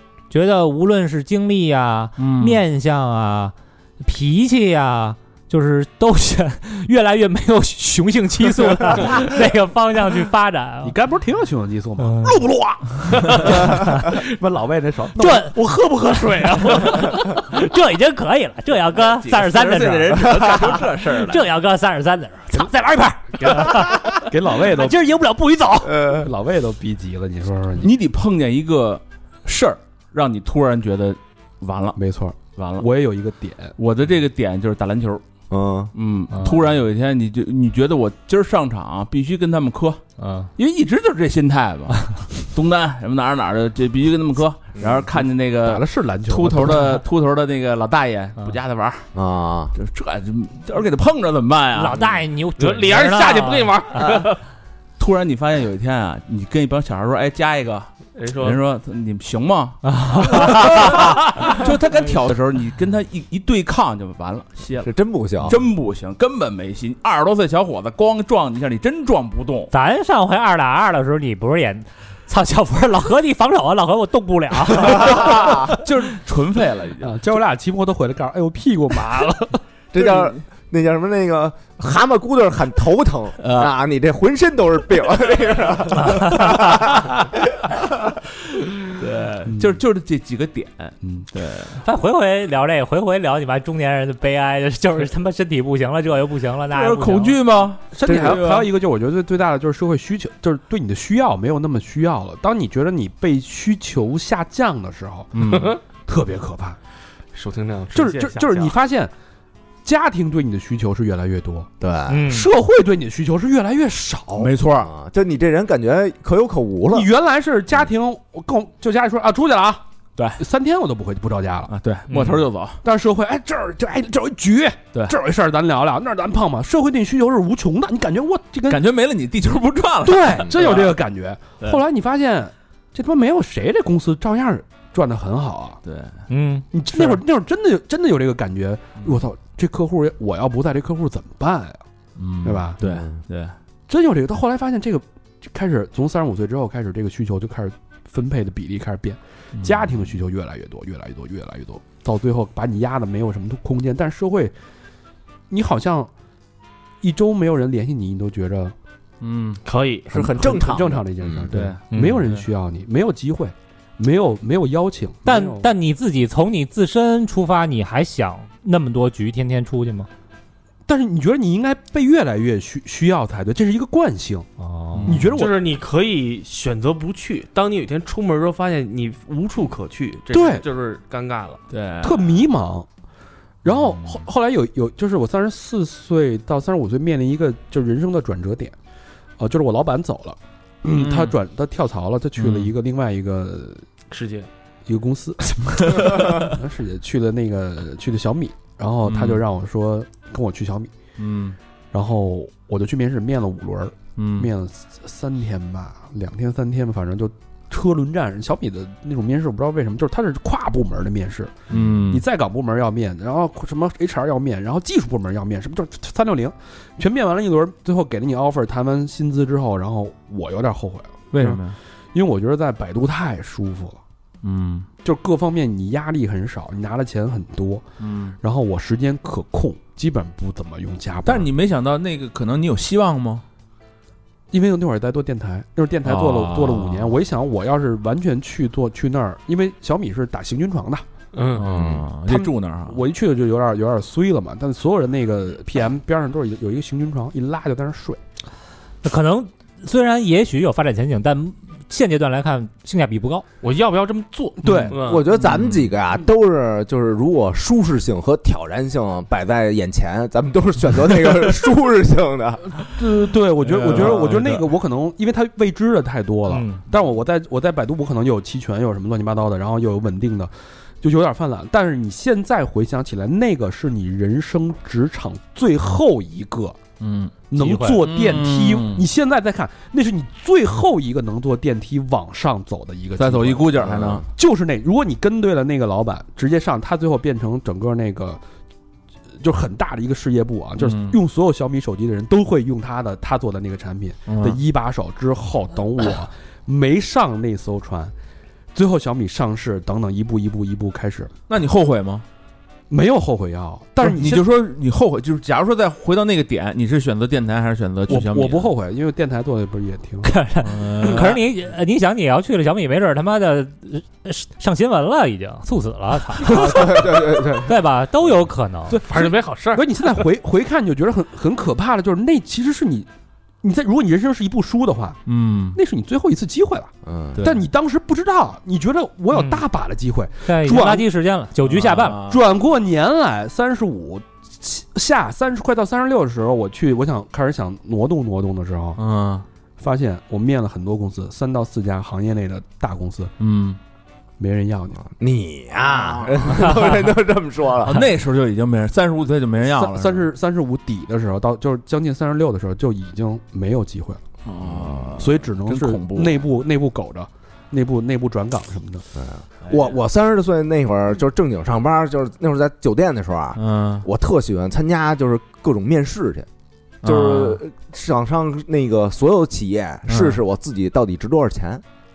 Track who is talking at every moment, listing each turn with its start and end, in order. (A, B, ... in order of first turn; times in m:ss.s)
0:00.3-0:10.9 A
0:02.2-0:02.6 B
0:08.8-0:09.2 C
0:10.8-0:17.4 C
0:12.0-0:12.4 A
0:13.8-0:14.0 A
0:15.2-0:15.6 A
0:16.7-0:20.4 A
0:19.0-0:21.4 B
0:21.0-0:25.9 A
0:23.5-0:25.0 C
0:25.8-0:26.3 D
0:26.2-0:27.9 C
0:27.8-0:32.0 B
0:32.0-0:33.7 C
0:32.5-0:32.9 B
0:33.8-0:35.2 B
0:35.5-0:35.9 D
0:35.9-0:40.0 B
0:36.3-0:36.7 C
0:40.2-0:40.5 A
0:40.6-0:49.0 B
0:44.7-0:45.1 D
0:45.6-0:47.0 C
0:49.1-0:49.7 D
0:49.7-0:52.2 B
0:51.7-0:54.0 A
0:52.6-0:54.4 E
0:55.0-1:09.7 B
0:58.1-0:58.6 E
0:59.8-1:01.2 A
1:04.8-1:05.6 D
1:09.7-1:15.3 A
1:14.8-1:15.7 D
1:15.0-1:17.2 B
1:17.0-1:19.6 C
1:19.9-1:27.9 D
1:20.0-1:20.4 B
1:23.4-1:23.7 B
1:28.9-1:31.8 B
1:29.5-1:29.8 C
1:31.0-1:31.3 C
1:31.8-1:37.4 A
1:36.7-1:38.7 B
1:37.9-1:46.8 C
1:38.0-1:38.4 E
1:45.3-1:45.8 B
1:45.4-1:45.8 E
1:47.3-1:48.8 E
1:47.9-1:49.1 C
1:49.8-1:51.7 C
1:51.8-1:52.3 D
1:52.1-1:52.5 A
1:52.3-1:54.5 C
1:54.4-1:54.9 B
1:54.8-1:57.1 D
1:56.9-1:59.8 C
2:00.2-2:00.4 B
2:00.4-2:01.7 C
2:01.7-2:02.8 B
2:02.1-2:02.4 A
2:02.8-2:08.8 C
2:08.7-2:11.0 B
2:10.0-2:15.8 C
2:15.8-2:16.2 B
2:16.3-2:17.2 A
2:16.7-2:21.8 C
2:22.2-2:23.6 B
2:22.4-2:22.8 C
2:22.8-2:23.2 D
2:23.9-2:34.5 C
2:29.5-2:30.1 B
2:35.5-2:36.1 C
2:37.0-2:38.7 C
2:39.2-2:39.6 B
2:39.6-2:40.3 E
2:40.1-2:41.5 D
2:40.1-2:45.6 C
2:41.5-2:42.5 B
2:41.9-2:42.2 A
2:45.2-2:50.1 A
2:50.9-2:54.5 C
2:54.6-2:55.3 A
2:54.9-2:55.4 B
2:55.0-2:55.6 C
2:55.3-3:01.6 E
3:00.3-3:00.6 C
3:01.7-3:02.4 B
3:02.0-3:02.9 C
3:03.6-3:08.7 C
3:09.4-3:13.8 C
3:10.9-3:11.4 B
3:12.4-3:12.8 B
3:14.1-3:14.5 E
3:14.8-3:20.9 C
3:16.0-3:16.3 B
3:19.0-3:19.4 B
3:21.2-3:21.6 B
3:21.9-3:41.6 C
3:24.1-3:24.5 B
3:31.7-3:32.2 B
3:41.3-3:41.8 B
3:42.1-3:44.0 C
3:44.4-3:44.9 B
3:45.0-3:51.5 C
3:48.0-3:48.4 B
3:51.2-3:53.4 B
3:54.5-4:01.0 C
3:56.0-3:57.1 B
4:01.3-4:01.7 E
4:01.5-4:03.0 B
4:01.7-4:02.0 D
4:02.3-4:08.2 C
4:09.0-4:13.4 A
4:13.6-4:15.2 E
4:14.6-4:15.0 C
4:14.7-4:14.9 B
4:14.9-4:22.8 D
4:22.9-4:36.8 C
4:23.6-4:24.6 B
4:26.5-4:26.8 A
4:37.0-4:37.4 B
4:37.5-4:48.4 C
4:37.6-4:38.0 A
4:38.0-4:39.1 B
4:43.2-4:44.2 B
4:43.8-4:44.2 D
4:49.4-4:58.1 C
4:50.8-4:51.2 B
4:54.3-4:54.6 B
4:58.7-5:01.3 C
5:01.5-5:02.2 B
5:02.9-5:04.4 C
5:04.0-5:08.7 B
5:08.1-5:10.3 C
5:10.2-5:19.0 A
5:10.6-5:11.4 B
5:16.4-5:17.8 D
5:18.9-5:23.1 C
5:19.1-5:19.8 E
5:23.6-5:25.2 C
5:25.2-5:25.8 B
5:25.7-5:31.1 C
5:27.0-5:27.4 D
5:27.3-5:27.7 B
5:29.3-5:29.6 A
5:30.4-5:32.2 A
5:31.6-5:32.4 B
5:32.2-5:39.0 C
5:39.0-5:39.4 B
5:39.8-5:43.3 C
5:43.4-5:43.8 B
5:44.4-5:45.0 C
5:45.0-5:48.0 D
5:45.9-5:46.8 B
5:47.8-5:50.3 B
5:49.6-5:54.2 C
5:54.4-5:56.4 B
5:54.7-5:55.1 D
5:55.2-5:59.0 C
5:59.2-6:06.5 D
5:59.7-5:59.9 B
6:03.6-6:04.0 B
6:07.0-6:07.6 B
6:07.0-6:11.8 D
6:10.1-6:10.4 B